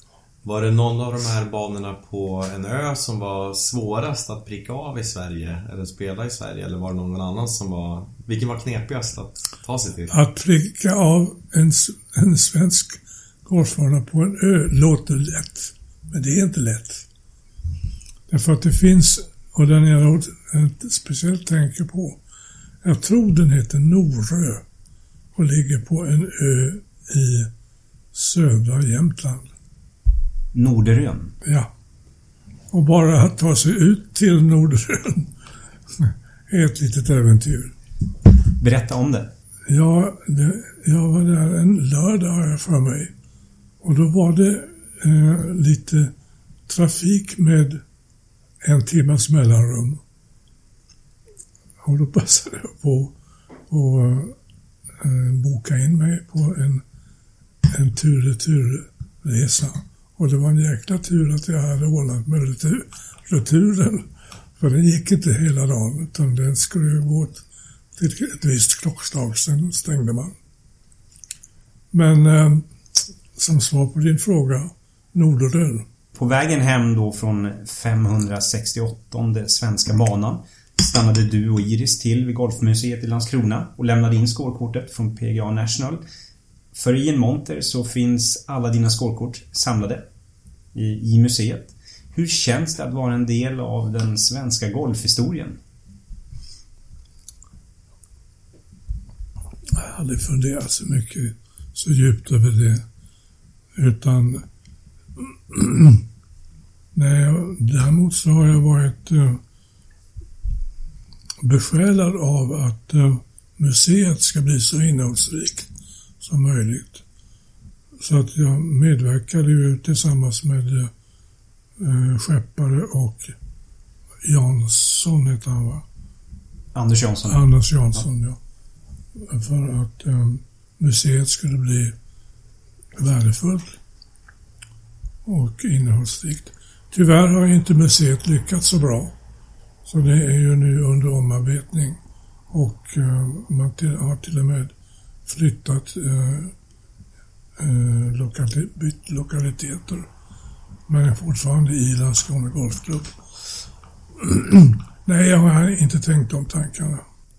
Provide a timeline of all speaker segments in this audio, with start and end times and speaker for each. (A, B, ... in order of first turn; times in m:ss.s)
0:00.4-0:10.1 A
0:10.1-0:17.0 B
0:18.3-0:22.2 B
0:22.8-0:24.6 B
0:25.3-0:27.5 B
0:28.1-0:29.5 B
0:30.5-0:31.3 C
0:32.7-0:35.3 B
0:36.0-0:37.7 B
0:38.4-0:39.3 C
0:39.7-0:43.1 B
0:43.8-0:46.1 B
0:46.7-0:47.8 B
0:48.6-0:50.0 B
0:51.8-0:53.1 B
0:53.7-0:54.4 B
0:55.0-0:56.8 B
0:57.7-1:04.1 B
1:04.6-1:07.4 B
1:08.0-1:10.3 B
1:11.9-1:12.6 B
1:13.4-1:15.8 B
1:16.1-1:26.0 C
1:26.7-1:30.0 C
1:30.7-1:35.6 C
1:39.7-1:42.8 B
1:43.8-1:44.4 B
1:45.2-1:46.0 B
1:46.9-1:49.4 B
1:51.4-1:55.7 B
1:56.2-1:57.0 B
1:58.0-2:00.9 B
2:01.8-2:03.3 B
2:04.2-2:05.8 B
2:06.7-2:07.5 C
2:07.3-2:08.4 B
2:09.3-2:11.9 B
2:13.0-2:13.8 B
2:15.2-2:19.2 B
2:19.8-2:22.0 B
2:22.5-2:24.7 B
2:25.2-2:26.5 B
2:27.6-2:30.1 B
2:30.9-2:33.1 B
2:34.2-2:37.0 B